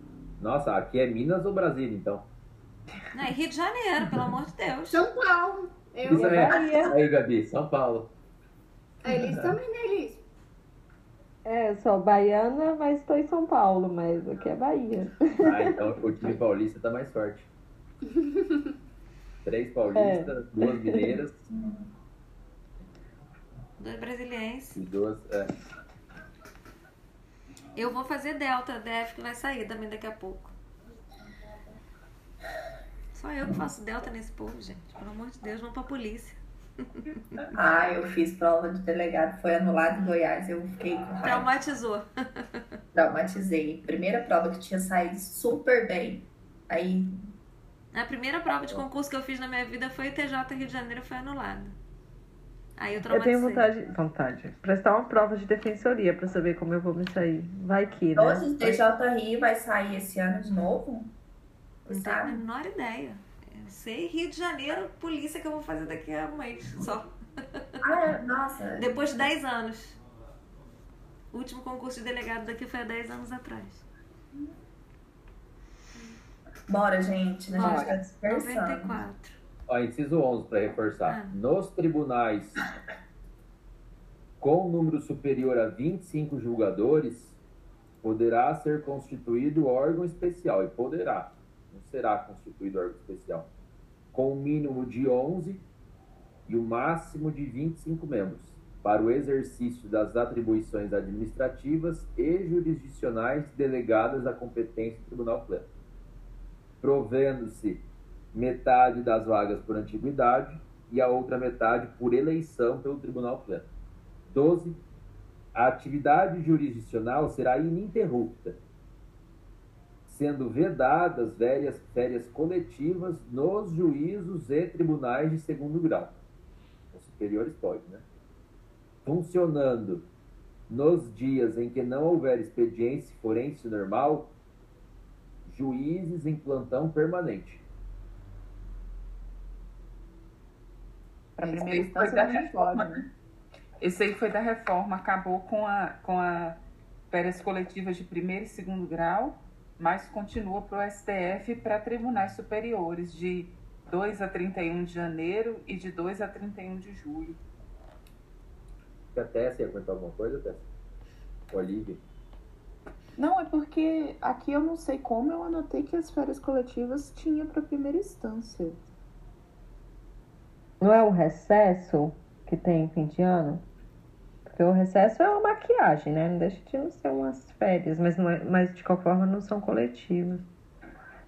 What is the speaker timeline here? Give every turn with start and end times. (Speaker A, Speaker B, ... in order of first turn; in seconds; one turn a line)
Speaker A: 0.4-2.2
Speaker B: 3.1-5.0
Speaker C: 4.9-6.9
Speaker A: 6.0-8.1
Speaker D: 6.2-6.9
Speaker C: 9.0-10.2
Speaker D: 11.4-15.7
Speaker A: 15.4-17.5
Speaker A: 19.4-21.4
Speaker D: 19.9-21.2
Speaker E: 21.5-21.9
Speaker B: 23.8-24.8
Speaker A: 24.7-25.5
Speaker B: 27.8-30.5
Speaker B: 33.1-37.3
Speaker E: 37.5-41.5
Speaker B: 41.2-42.1
Speaker E: 42.9-47.1
Speaker B: 47.9-51.8
Speaker B: 52.8-53.7
Speaker D: 53.1-58.8
Speaker E: 58.1-61.1
Speaker E: 61.9-62.4
Speaker B: 61.9-67.1
Speaker E: 67.8-69.2
Speaker B: 68.8-70.0
Speaker B: 71.3-73.8
Speaker E: 76.7-79.0
Speaker B: 77.5-79.4
Speaker F: 77.6-77.9
Speaker A: 79.7-82.7
Speaker B: 81.1-81.3
Speaker A: 84.4-87.4
Speaker A: 88.0-93.5
Speaker A: 94.1-95.6
Speaker A: 96.5-105.7
Speaker A: 106.8-113.7
Speaker A: 114.3-114.8
Speaker A: 115.5-118.6
Speaker A: 120.0-126.1
Speaker A: 126.9-128.0
Speaker A: 129.0-130.1
Speaker A: 130.7-134.3
Speaker A: 135.4-137.6
Speaker G: 141.4-143.0
Speaker F: 141.4-143.0
Speaker F: 143.8-146.6
Speaker F: 147.1-157.4
Speaker A: 159.1-160.7
Speaker A: 161.5-162.0
Speaker G: 163.2-168.9
Speaker D: 170.8-173.6
Speaker D: 174.4-180.4